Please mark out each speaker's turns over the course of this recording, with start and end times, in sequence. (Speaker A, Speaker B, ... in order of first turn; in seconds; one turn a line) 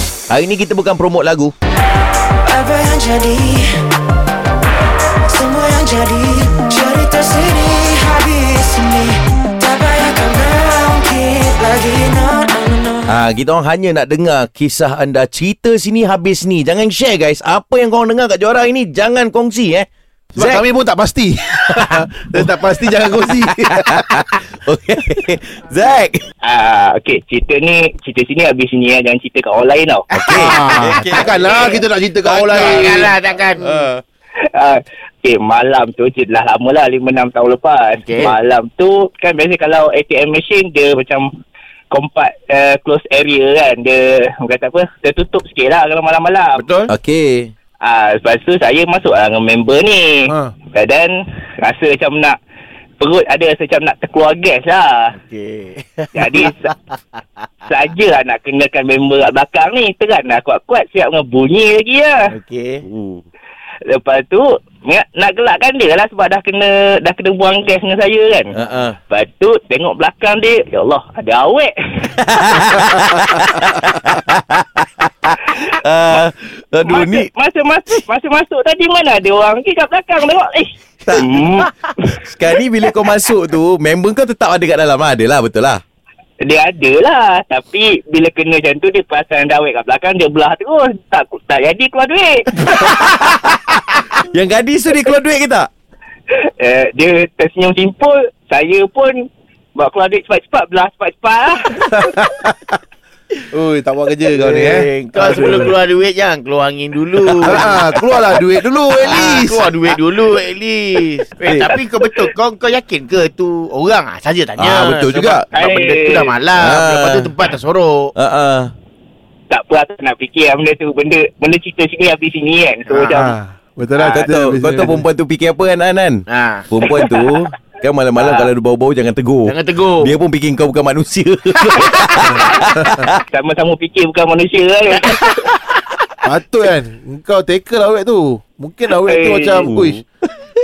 Speaker A: 0.3-1.5
Speaker B: 2.5-3.8
Speaker B: 5.3-13.1
Speaker A: 13.1-20.6
Speaker C: 20.3-24.0
Speaker A: 21.6-26.2
Speaker D: 26.4-30.1
Speaker A: 30.1-31.5
Speaker C: 30.3-33.2
Speaker E: 30.8-33.8
Speaker A: 33.6-34.0
Speaker D: 34.5-41.3
Speaker E: 38.0-38.4
Speaker D: 41.9-46.7
Speaker E: 46.6-46.9
Speaker A: 46.9-47.5
Speaker D: 47.8-52.4
Speaker D: 53.0-55.1
Speaker E: 55.1-57.2
Speaker D: 56.1-56.7
Speaker D: 57.7-62.3
Speaker E: 62.3-62.8
Speaker A: 62.9-63.2
Speaker D: 63.9-68.6
Speaker A: 68.5-69.0
Speaker D: 69.1-72.1
Speaker A: 72.1-77.3
Speaker D: 76.8-82.1
Speaker A: 81.0-85.8
Speaker D: 86.4-92.7
Speaker A: 92.6-95.7
Speaker D: 96.3-99.2
Speaker D: 99.7-102.1
Speaker C: 101.8-102.7
Speaker C: 103.5-105.7
Speaker E: 104.3-118.1
Speaker C: 107.2-110.0
Speaker A: 111.4-112.3
Speaker A: 114.6-115.5
Speaker D: 115.5-116.3
Speaker A: 116.6-117.3
Speaker A: 118.2-118.7
Speaker D: 119.5-123.3
Speaker E: 122.8-123.2
Speaker C: 123.1-125.0
Speaker A: 124.1-133.2
Speaker E: 126.3-126.7
Speaker D: 128.2-128.5
Speaker E: 129.4-130.1
Speaker D: 133.3-135.5
Speaker C: 136.2-140.0
Speaker D: 139.0-139.7
Speaker A: 139.5-140.0